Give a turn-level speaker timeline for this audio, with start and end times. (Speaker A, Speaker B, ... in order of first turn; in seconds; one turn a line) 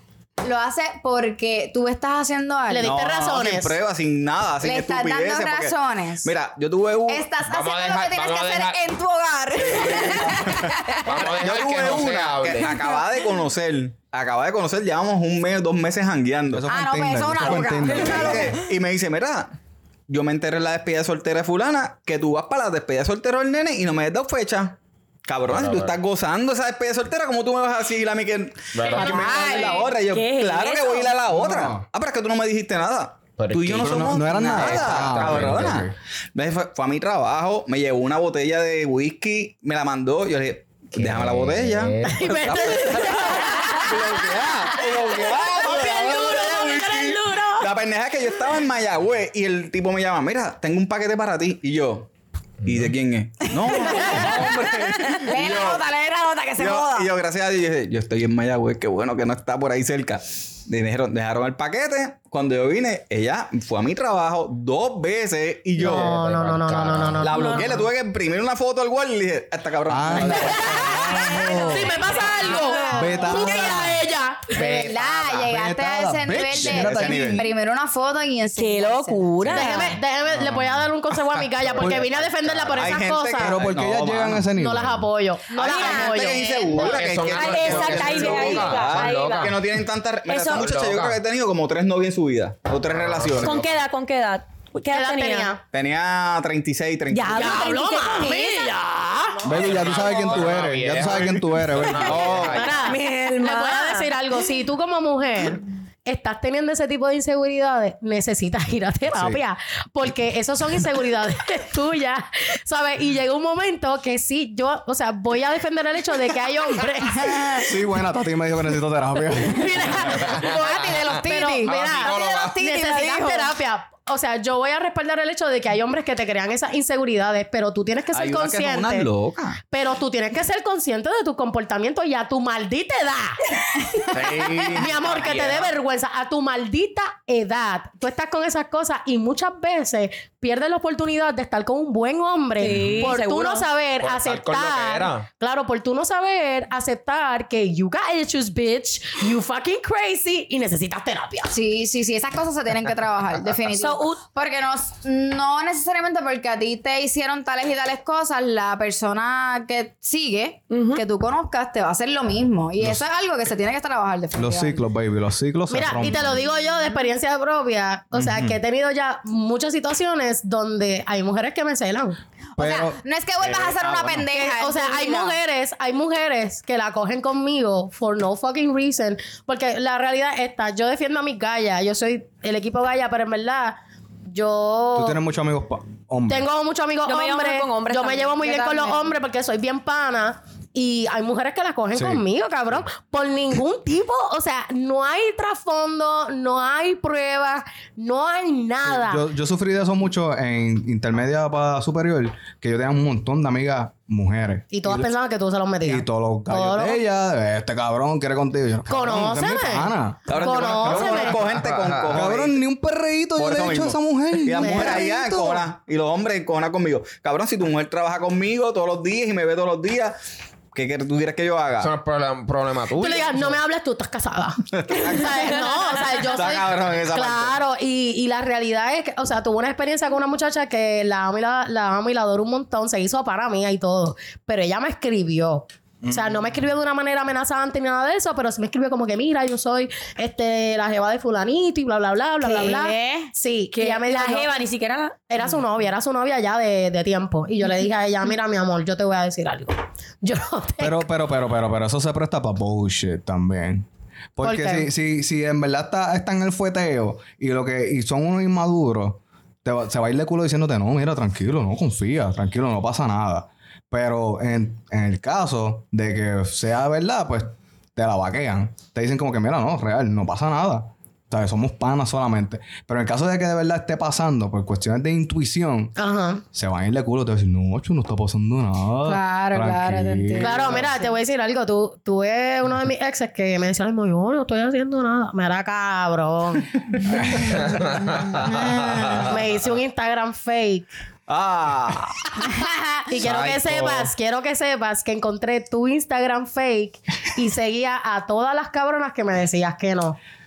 Speaker A: 0.4-2.9
Speaker B: 2.7-3.8
Speaker C: 2.8-7.3
Speaker A: 4.6-6.3
Speaker A: 7.1-11.3
Speaker D: 7.4-8.8
Speaker C: 9.5-16.7
Speaker D: 11.0-12.9
Speaker A: 12.7-13.0
Speaker E: 16.5-18.6
Speaker A: 16.7-18.6
Speaker C: 17.5-19.5
Speaker C: 20.1-24.8
Speaker C: 25.3-52.1
Speaker D: 25.5-26.0
Speaker D: 28.7-29.7
Speaker A: 28.9-29.9
Speaker F: 29.0-31.1
Speaker E: 31.3-31.8
Speaker D: 33.4-35.8
Speaker E: 33.8-35.9
Speaker D: 41.0-43.0
Speaker B: 42.0-47.7
Speaker D: 52.6-52.9
Speaker C: 52.6-55.9
Speaker A: 53.5-57.1
Speaker C: 56.6-66.2
Speaker D: 65.8-67.3
Speaker B: 65.8-67.8
Speaker C: 67.2-71.2
Speaker F: 67.3-67.8
Speaker E: 69.9-72.1
Speaker B: 70.5-74.6
Speaker F: 72.2-73.3
Speaker E: 72.9-74.0
Speaker A: 74.5-79.8
Speaker D: 74.6-75.4
Speaker E: 75.4-77.5
Speaker C: 76.6-77.5
Speaker F: 78.6-80.0
Speaker B: 79.5-83.6
Speaker D: 81.3-83.0
Speaker C: 82.7-84.5
Speaker E: 83.4-85.0
Speaker B: 84.5-87.0
Speaker C: 85.5-93.7
Speaker F: 85.6-86.3
Speaker D: 86.7-89.6
Speaker F: 87.3-89.5
Speaker F: 90.3-90.7
Speaker D: 90.5-91.2
Speaker D: 92.9-93.7
Speaker F: 93.4-95.5
Speaker B: 94.9-95.6
Speaker C: 95.7-97.8
Speaker F: 97.1-98.7
Speaker B: 97.3-99.5
Speaker E: 99.4-102.5
Speaker D: 99.5-103.0
Speaker C: 102.0-102.7
Speaker B: 102.4-117.7
Speaker F: 102.8-104.1
Speaker E: 109.1-109.4
Speaker A: 117.2-117.6
Speaker E: 117.6-120.2
Speaker B: 119.5-129.1
Speaker D: 120.2-122.5
Speaker A: 120.2-123.5
Speaker C: 128.1-129.6
Speaker B: 129.6-133.4
Speaker B: 133.9-151.5
Speaker C: 134.1-134.9
Speaker D: 134.3-135.7
Speaker F: 142.6-143.7
Speaker D: 142.6-143.1
Speaker D: 144.0-145.2
Speaker A: 151.5-164.8
Speaker F: 153.7-154.2
Speaker F: 160.7-161.0
Speaker E: 162.8-163.0
Speaker E: 164.3-166.4
Speaker B: 165.7-172.2
Speaker E: 168.1-168.6
Speaker A: 172.6-175.4
Speaker E: 172.6-174.2
Speaker B: 174.3-183.8
Speaker B: 184.3-185.2
Speaker E: 184.9-186.5
Speaker B: 186.3-199.2
Speaker F: 187.0-189.0
Speaker E: 191.9-192.2
Speaker E: 198.8-205.1
Speaker B: 204.7-207.0
Speaker E: 205.8-211.4
Speaker B: 208.9-211.4
Speaker C: 210.3-212.6
Speaker D: 211.2-212.3
Speaker E: 212.1-215.6
Speaker C: 213.4-220.2
Speaker B: 214.5-215.4
Speaker C: 220.7-221.9
Speaker D: 221.8-223.6
Speaker B: 222.9-244.6
Speaker C: 224.7-225.7
Speaker C: 226.2-227.6
Speaker E: 236.0-236.5
Speaker A: 242.4-243.3
Speaker F: 243.7-245.5
Speaker B: 245.3-251.0
Speaker E: 250.8-275.9
Speaker B: 254.4-254.9
Speaker B: 276.0-276.4
Speaker E: 276.5-280.9
Speaker A: 279.1-281.1
Speaker B: 280.4-286.7
Speaker D: 287.4-289.4
Speaker A: 288.4-289.2
Speaker B: 289.2-290.9
Speaker C: 291.3-292.1
Speaker A: 292.4-293.1
Speaker B: 293.1-300.2
Speaker D: 293.2-294.1